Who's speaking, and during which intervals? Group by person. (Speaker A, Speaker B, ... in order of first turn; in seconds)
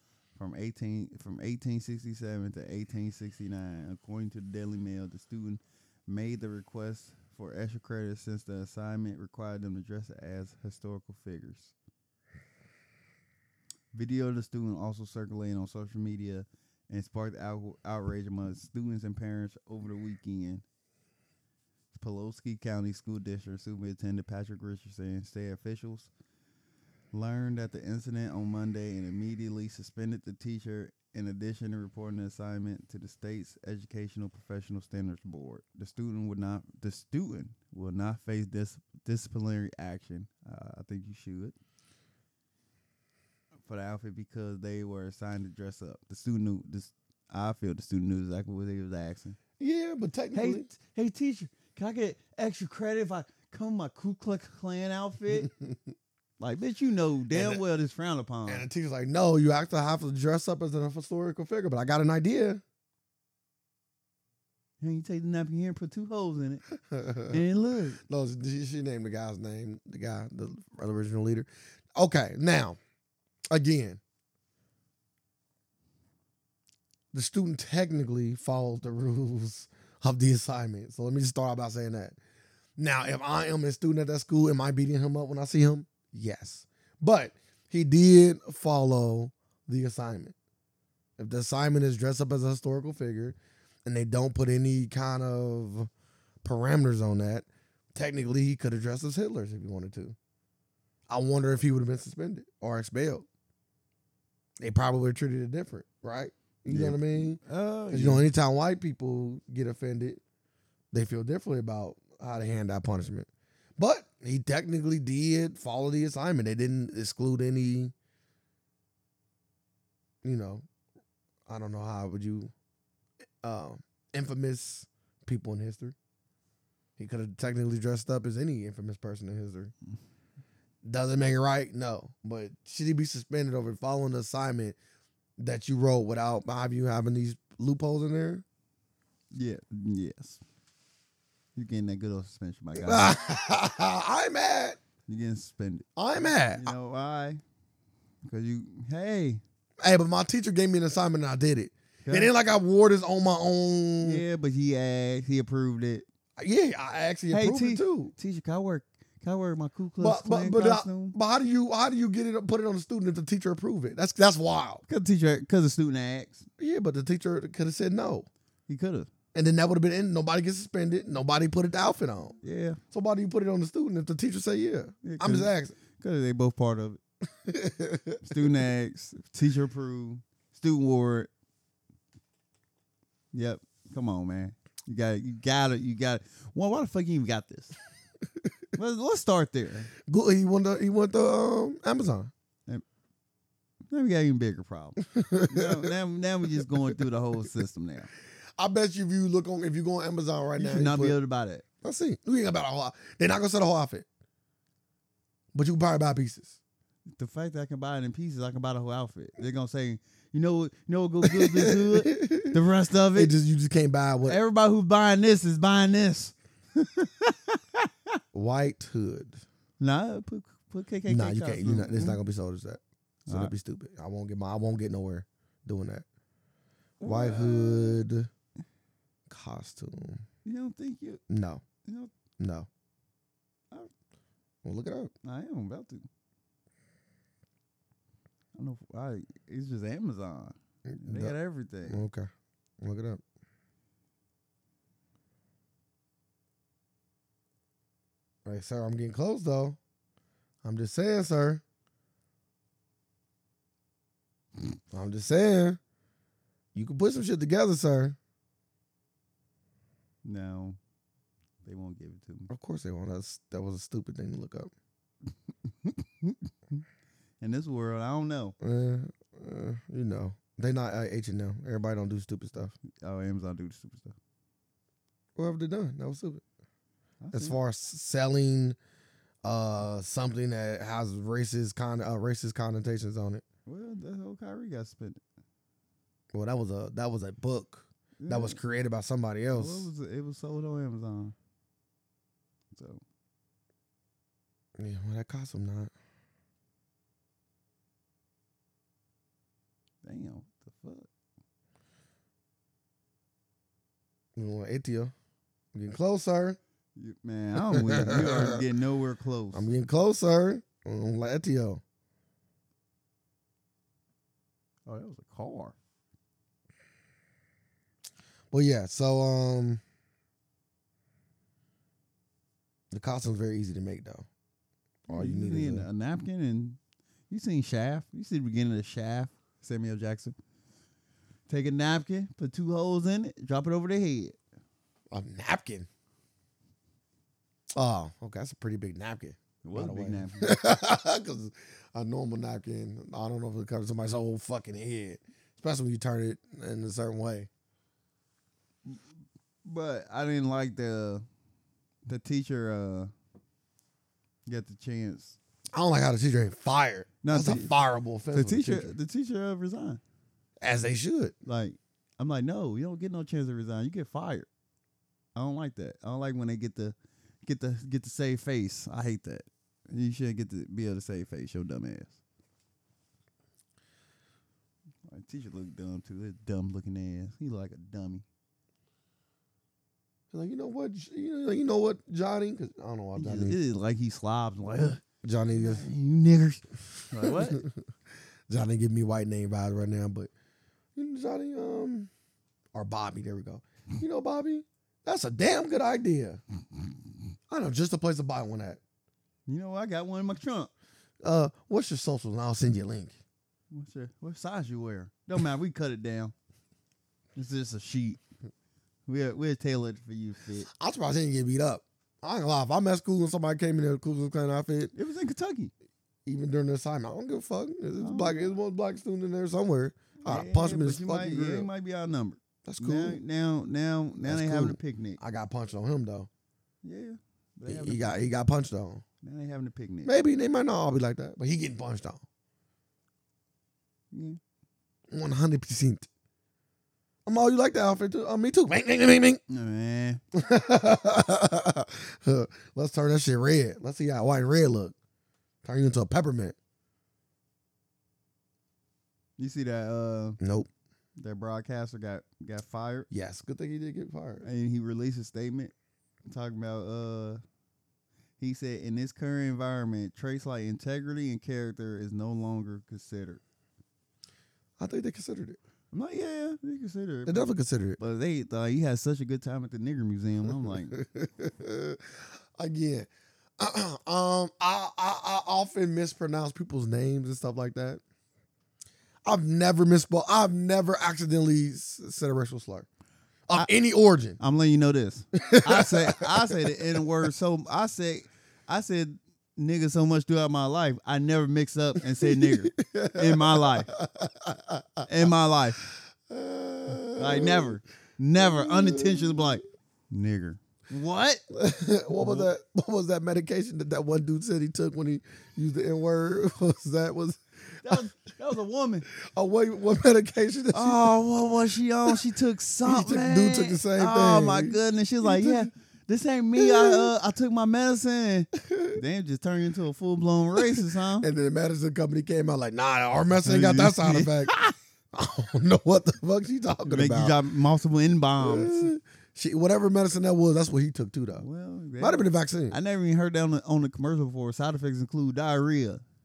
Speaker A: 0.3-11.7, 13.9-20.6, 21.9-26.1, 27.1-41.5, 43.6-49.4, 50.3-55.5, 56.4-58.7, 64.8-66.6, 67.3-68.0, 106.7-108.3, 139.3-140.4, 141.6-143.1, 145.1-145.8, 146.5-147.4, 148.2-149.4, 152.0-152.3, 154.0-156.0, 157.3-161.2, 164.9-166.5, 168.7-169.1, 172.4-172.8, 175.0-177.0, 178.2-181.3, 183.3-187.8, 188.7-189.9, 193.9-198.1, 200.6-201.6, 207.2-213.3, 214.2-218.2, 219.8-222.2, 223.3-223.5, 227.0-228.0, 230.4-231.2, 231.8-232.1, 235.2-236.1, 238.5-242.0, 260.2-260.8, 261.6-262.5, 265.6-266.8, 267.4-268.6, 273.0-274.1, 277.2-277.6, 283.6-285.2, 288.2-288.6, 289.5-291.3, 292.7-293.0, 300.0-301.1, 306.9-309.7, 314.9-315.7, 325.1-326.8, 327.3-330.4, 331.5-334.4, 339.6-340.6, 349.6-351.2, 352.1-353.1, 354.4-355.4, 357.2-357.7, 358.3-360.0, 361.4-364.5, 365.3-372.2, 375.1-378.2, 383.1-385.0, 385.6-387.6, 399.5-400.7, 403.7-406.3, 407.4-408.2, 409.1-410.7, 414.9-415.7, 418.0-418.5, 420.2-425.2, 426.8-428.0, 429.2-430.1, 434.1-434.4, 439.5-440.2, 449.4-450.4, 451.2-453.1, 454.4-455.7, 456.3-457.4, 458.4-463.4, 465.9-471.0, 484.4-493.9, 495.0-495.9, 497.1-501.4, 502.2-502.5, 507.8-509.1, 510.7-521.3, 523.4-524.7, 526.9-528.9, 531.4-536.0
Speaker B: 49.6-50.7, 55.3-55.8, 57.3-57.6, 58.5-62.6, 66.9-67.4, 68.0-72.8, 73.5-74.0, 77.1-82.2, 82.8-90.3, 91.2-95.9, 96.4-100.2, 101.1-103.2, 104.6-110.2, 110.9-117.9, 120.2-120.6, 121.5-122.5, 123.4-126.0, 127.0-129.7, 130.8-134.8, 135.4-138.4, 142.8-144.8, 145.9-146.7, 149.8-154.2, 156.4-158.1, 160.0-164.8, 166.6-168.3, 169.3-172.4, 172.9-175.7, 177.4-178.4, 190.1-192.3, 195.0-195.9, 198.6-201.2, 201.8-204.1, 205.5-206.6, 211.2-212.5, 213.1-214.4, 218.3-219.4, 221.1-226.1, 227.0-228.3, 229.3-230.2, 231.3-231.6, 232.4-232.7, 234.6-235.1, 240.9-241.3, 241.8-242.3, 242.8-243.2, 248.4-249.8, 250.6-251.6, 254.9-255.8, 256.7-258.2, 262.5-264.7, 268.6-272.7, 275.4-276.4, 277.3-278.8, 279.4-283.4, 286.3-289.9, 294.8-295.9, 304.4-305.1, 305.7-306.6, 307.7-308.6, 309.5-311.8, 318.5-319.8, 322.9-324.3, 325.1-325.9, 335.1-335.9, 337.7-347.5, 355.7-358.9, 360.6-361.3, 380.3-383.6, 385.2-385.9, 387.2-387.8, 388.5-390.3, 390.9-392.1, 392.7-396.4, 397.5-398.8, 401.2-403.1, 410.7-414.9, 416.2-421.7, 422.6-423.2, 424.2-426.3, 427.7-429.0, 430.0-432.2, 435.1-436.1, 437.2-439.4, 440.3-444.9, 445.6-446.6, 450.4-450.7, 453.1-454.4, 464.8-465.6, 467.2-468.0, 470.9-478.0, 479.2-482.9, 483.5-484.4, 485.4-487.0, 492.2-495.1, 496.3-497.8, 498.4-499.6, 501.5-508.1, 509.1-511.1, 512.8-515.7, 516.5-517.1, 518.6-519.0, 520.5-524.5, 525.1-527.4, 528.4-531.4, 532.0-532.8